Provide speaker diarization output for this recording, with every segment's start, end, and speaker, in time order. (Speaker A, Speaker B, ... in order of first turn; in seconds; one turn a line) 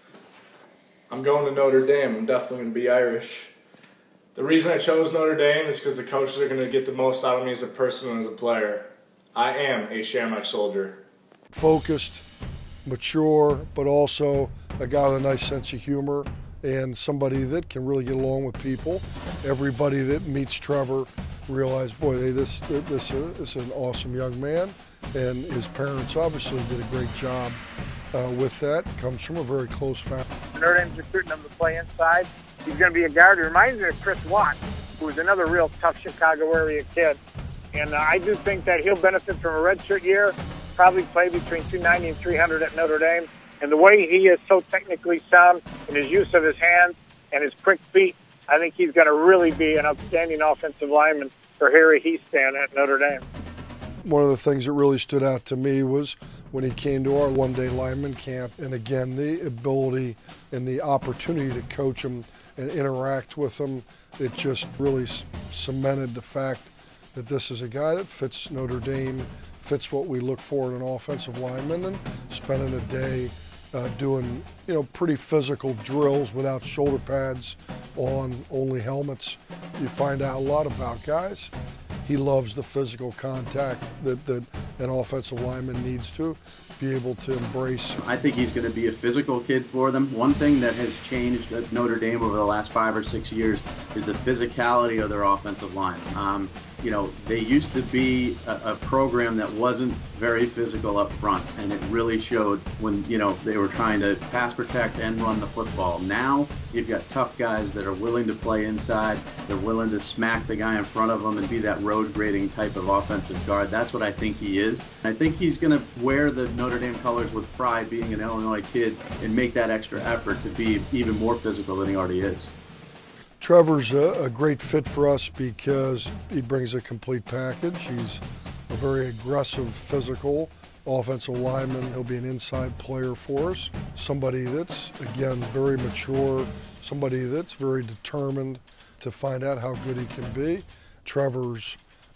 Speaker A: 1.1-3.5
Speaker A: 4.3-11.0
Speaker B: 11.5-12.2
Speaker B: 12.8-27.6
Speaker B: 28.1-30.2
Speaker C: 30.5-37.2
Speaker C: 37.7-53.2
Speaker B: 54.0-81.5
Speaker B: 82.0-88.0
Speaker D: 88.0-122.5
Speaker B: 123.4-141.8